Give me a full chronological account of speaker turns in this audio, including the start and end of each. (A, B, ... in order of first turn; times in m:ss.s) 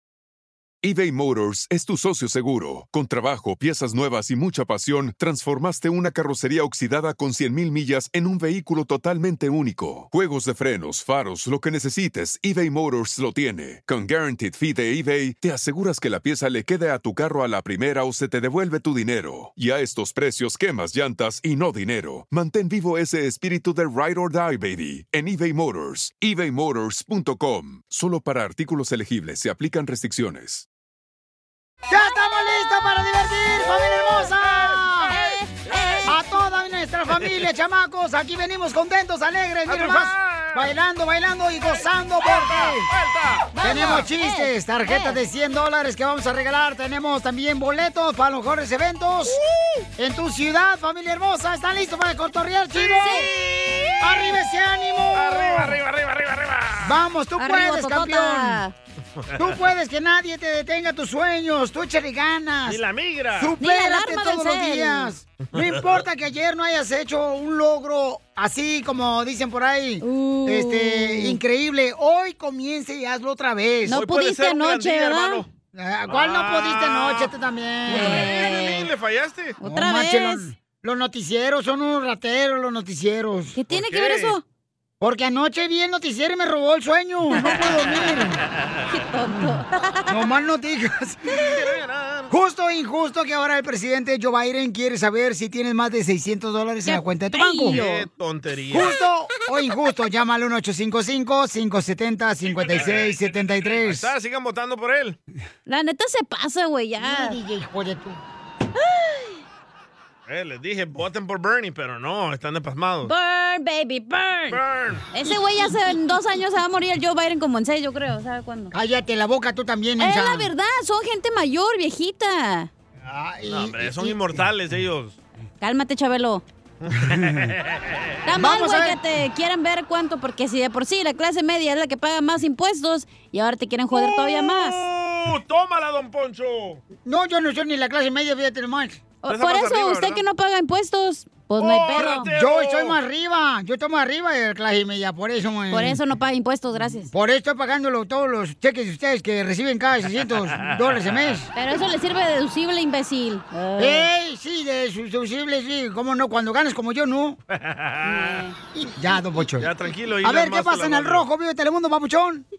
0:00.8-0:30.6 A
0:31.9-0:35.1 B
0:35.1-0:36.1 C
0:36.0-0:42.9 B
0:39.7-0:40.7 D
0:42.2-0:43.5 D
0:43.5-0:45.2 C
0:43.6-0:49.4 B
0:50.0-0:53.3 B
0:53.0-0:54.3 D
0:53.0-0:53.3 C
0:54.0-0:55.8 B
0:55.1-0:57.0 D
0:56.8-0:58.6 B
0:57.4-0:58.7 C
0:59.4-1:02.8 B
1:02.6-1:03.6 D
1:03.4-1:14.0 B
1:03.6-1:05.1 C
1:10.0-1:11.4 C
1:13.9-1:15.4 C
1:13.9-1:15.5 D
1:15.7-1:18.3 B
1:16.1-1:17.3 D
1:17.9-1:19.6 D
1:17.9-1:18.9 C
1:19.6-1:20.5 C
1:19.6-1:23.6 B
1:23.6-1:24.4 C
1:23.7-1:24.4 D
1:25.0-1:28.4 B
1:28.9-1:30.2 C
1:30.1-1:31.4 B
1:31.3-1:32.3 D
1:32.3-1:37.8 B
1:36.8-1:38.1 C
1:37.7-1:38.9 D
1:38.7-1:44.1 B
1:42.5-1:45.2 D
1:45.7-1:47.4 C
1:47.0-1:48.2 B
1:48.8-1:49.4 C
1:50.3-1:53.1 D
1:53.0-1:54.6 C
1:54.5-1:55.0 D
1:55.1-1:58.7 C
1:58.7-2:00.5 B
2:00.0-2:02.7 C
2:03.0-2:04.2 B
2:03.5-2:05.2 D
2:05.6-2:06.4 C
2:06.8-2:08.0 D
2:08.2-2:14.9 C
2:08.3-2:09.0 B
2:13.9-2:16.8 D
2:17.0-2:19.0 B
2:19.2-2:22.3 C
2:19.2-2:20.2 D
2:21.6-2:23.0 D
2:22.0-2:26.0 B
2:25.7-2:27.1 C
2:27.0-2:31.5 B
2:30.6-2:31.2 D
2:31.5-2:34.1 C
2:33.8-2:37.4 B
2:37.5-2:38.5 D
2:38.0-2:38.6 C
2:39.0-2:39.7 B
2:39.6-2:41.2 D
2:40.2-2:42.4 B